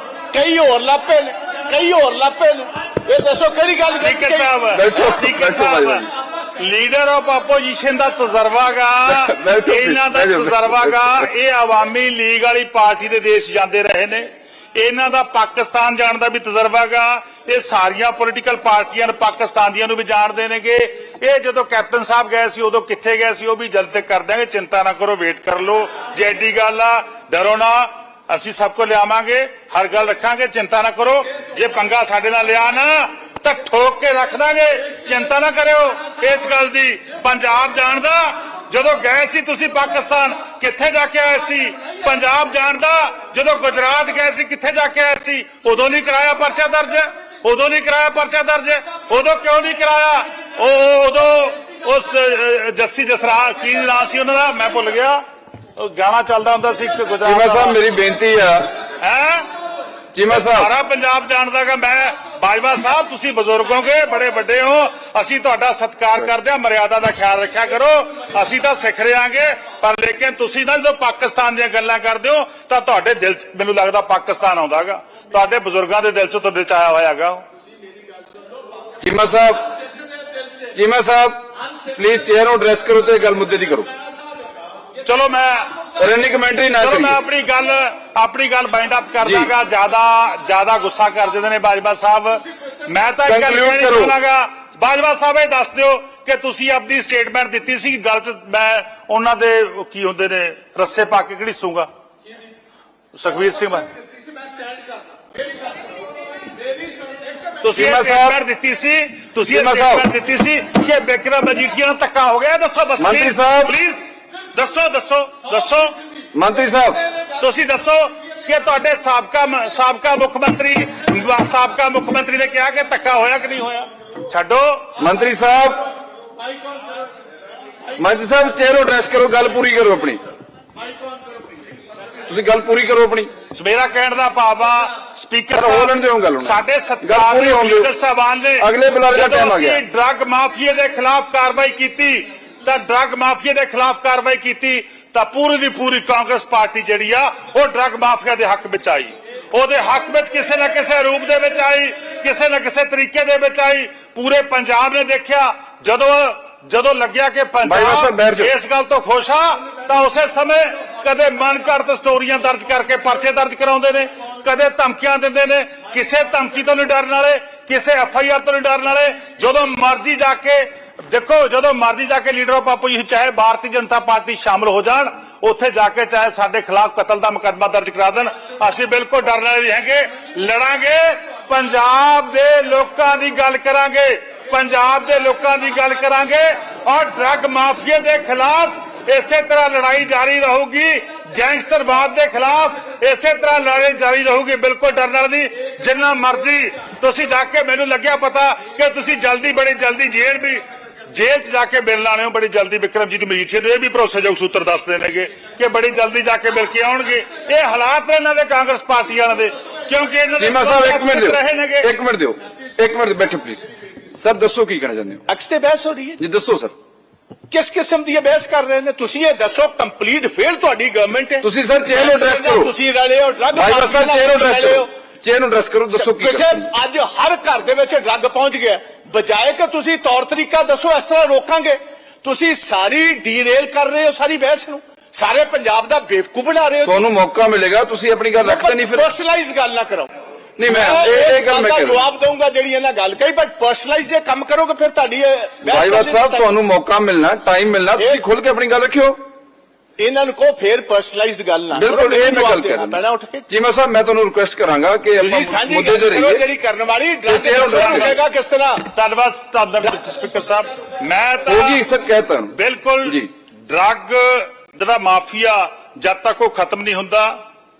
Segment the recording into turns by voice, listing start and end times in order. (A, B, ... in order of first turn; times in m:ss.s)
0:00.3-0:04.5 A
0:04.0-0:55.2 B
0:04.7-0:06.1 C
0:09.1-0:11.3 C
0:55.8-0:57.8 B
0:57.2-0:58.8 C
0:59.0-0:59.5 B
1:00.1-1:00.7 C
1:00.3-1:17.4 B
1:19.0-1:19.7 C
1:20.7-1:23.9 C
1:25.0-1:25.8 B
1:26.0-1:27.2 C
1:26.8-1:41.9 B
1:29.2-1:29.5 C
1:33.2-1:34.1 C
1:43.1-1:43.9 B
1:47.6-1:55.9 B
1:47.7-1:48.4 C
1:49.5-1:50.1 C
1:53.0-1:53.7 C
1:56.3-1:57.0 C
1:57.4-2:04.9 B
2:05.0-2:05.9 C
2:08.0-2:10.2 C
2:12.3-2:13.3 C
2:13.5-3:31.9 B
2:15.5-2:17.9 C
2:18.6-2:19.8 C
2:37.6-2:38.5 C
3:30.4-3:35.3 C
3:35.3-3:36.2 A
3:36.2-3:36.7 C
3:37.5-3:44.9 A
3:41.4-3:42.7 C
3:43.5-3:46.7 C
3:45.9-3:57.0 A
3:56.8-3:59.1 C
3:58.4-4:00.1 A
4:00.6-4:02.0 C
4:00.6-4:06.5 A
4:05.6-4:09.2 C
4:08.0-4:08.2 A
4:10.0-4:13.5 A
4:11.7-4:16.4 C
4:15.2-4:18.9 A
4:17.2-4:18.2 C
4:17.7-4:18.1 B
4:18.9-4:21.8 B
4:21.5-4:23.3 C
4:22.5-4:27.3 B